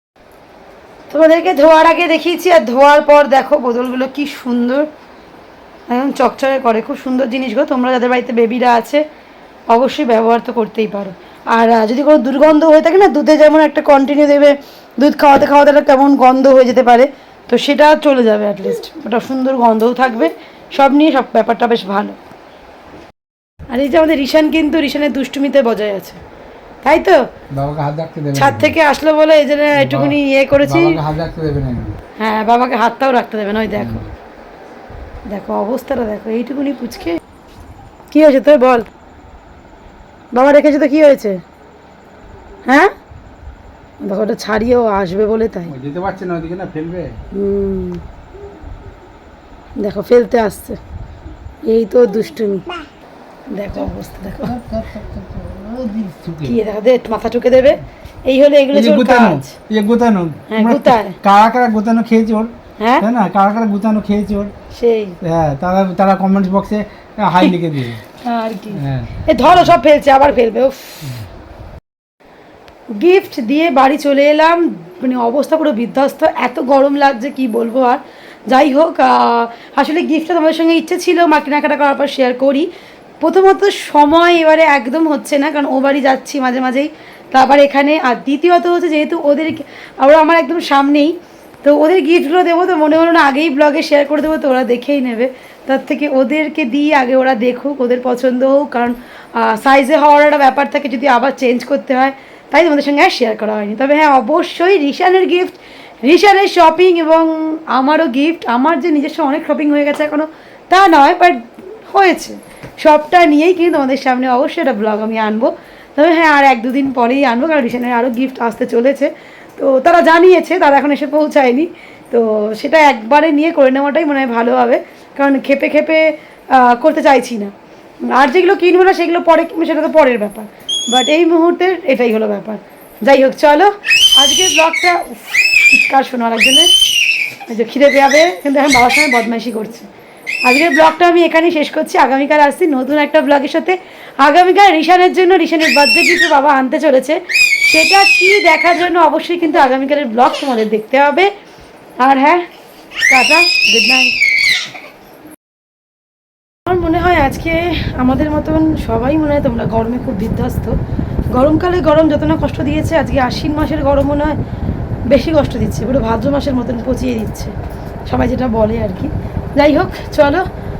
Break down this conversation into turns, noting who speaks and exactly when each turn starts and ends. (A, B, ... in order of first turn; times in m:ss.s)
0:01.1-0:04.9 A
0:05.9-0:09.0 A
0:09.7-0:22.2 A
0:23.7-0:26.2 A
0:26.8-0:27.3 A
0:27.5-0:28.7 B
0:28.3-0:31.0 A
0:29.7-0:32.0 B
0:32.2-0:34.0 A
0:33.8-0:34.1 B
0:35.3-0:37.2 A
0:38.1-0:38.9 A
0:40.3-0:41.4 A
0:42.6-0:42.9 A
0:44.0-0:45.7 A
0:45.7-0:47.2 B
0:47.3-0:48.0 A
0:49.8-0:50.8 A
0:51.6-0:52.7 A
0:53.5-0:54.5 A
0:54.4-0:56.6 B
0:56.4-0:59.5 A
0:58.7-1:04.5 B
1:00.5-1:01.2 A
1:02.8-1:03.0 A
1:04.7-1:05.2 A
1:05.2-1:08.0 B
1:08.2-1:11.1 A
1:08.7-1:09.2 B
1:12.9-1:22.7 A
1:23.2-2:07.5 A
2:08.1-2:16.7 A
2:17.5-2:19.9 A
2:20.4-2:31.3 A
2:32.0-2:32.4 A
2:33.0-2:34.2 A
2:36.6-2:40.8 A
2:41.3-2:44.4 A
2:45.1-2:47.5 A
2:48.1-2:50.4 A